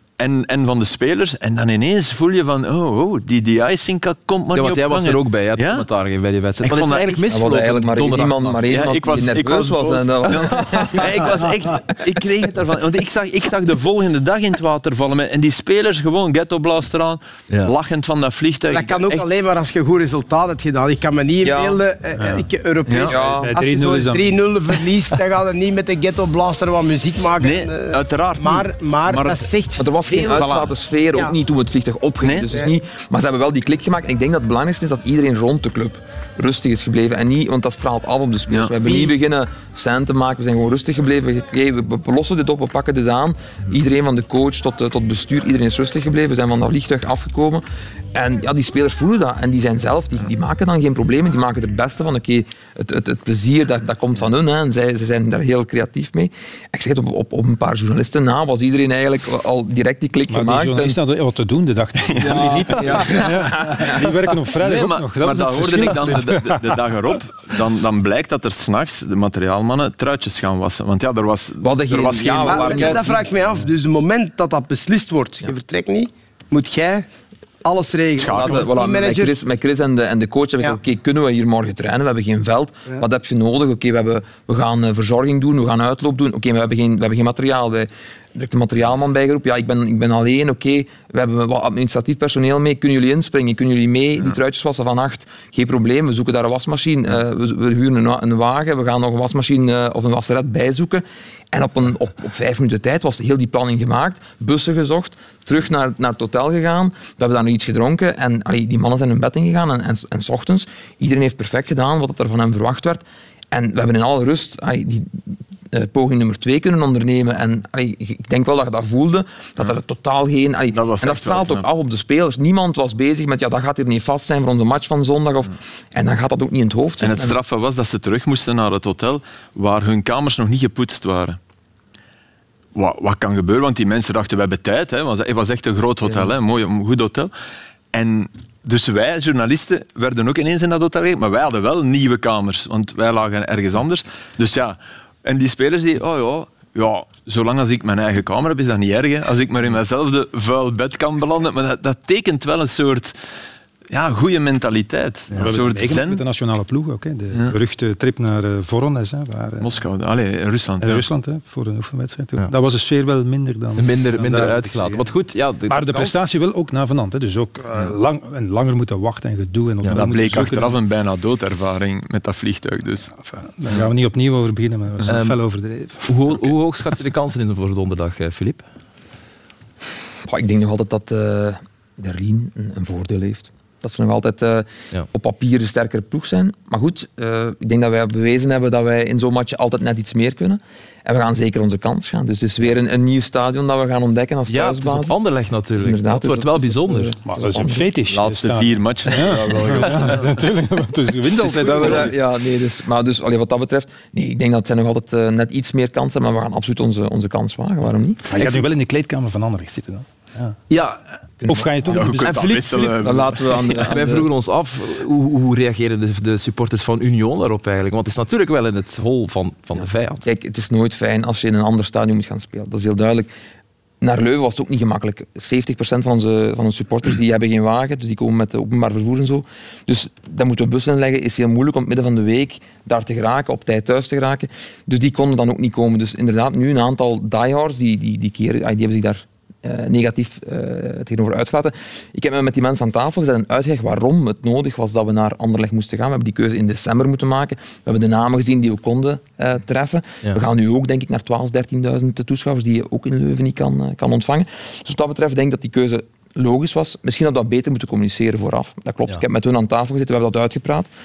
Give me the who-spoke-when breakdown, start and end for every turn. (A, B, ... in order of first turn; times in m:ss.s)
0:00.2-0:05.9 A
0:04.5-0:08.6 B
0:06.6-0:07.2 A
0:07.3-0:11.3 C
0:08.7-0:19.3 A
0:10.3-0:11.1 B
0:18.7-0:31.3 D
0:21.4-0:21.8 C
0:22.2-0:22.4 E
0:22.9-0:23.2 A
0:23.1-0:23.5 C
0:23.4-0:24.2 E
0:27.4-0:29.5 A
0:29.8-1:01.0 C
0:30.3-0:30.7 A
0:32.2-0:32.5 A
0:38.5-0:38.7 A
0:38.8-0:39.1 D
1:00.3-1:06.6 E
1:02.2-1:04.2 C
1:04.6-1:13.2 A
1:05.6-1:06.1 B
1:11.6-1:13.1 C
1:12.4-1:17.1 D
1:17.6-1:19.4 D
1:18.2-1:18.7 A
1:18.3-2:07.4 C
2:00.7-2:01.7 A
2:07.0-2:11.4 A
2:12.8-2:17.3 A
2:17.9-2:33.2 A
2:33.9-2:36.2 A
2:35.4-2:39.7 E
2:39.6-2:41.0 A
2:40.8-2:45.1 E
2:43.8-2:46.2 B
2:45.7-2:50.8 E
2:49.9-2:53.1 A
2:53.2-2:56.0 E
2:55.1-2:55.4 B
2:56.0-2:58.6 B
3:00.3-3:15.2 C
3:14.5-3:17.2 B
3:15.8-3:17.9 C
3:17.2-3:22.1 E
3:18.1-3:20.2 A
3:19.2-3:20.2 B
3:21.4-3:28.6 C
3:28.3-3:30.6 E
3:30.7-3:31.0 B
3:31.5-3:32.4 E
3:31.9-3:33.9 A
3:31.9-3:33.0 B
3:33.0-3:34.3 C
3:33.8-3:40.2 B
3:40.2-3:43.3 C
3:44.0-4:20.9 C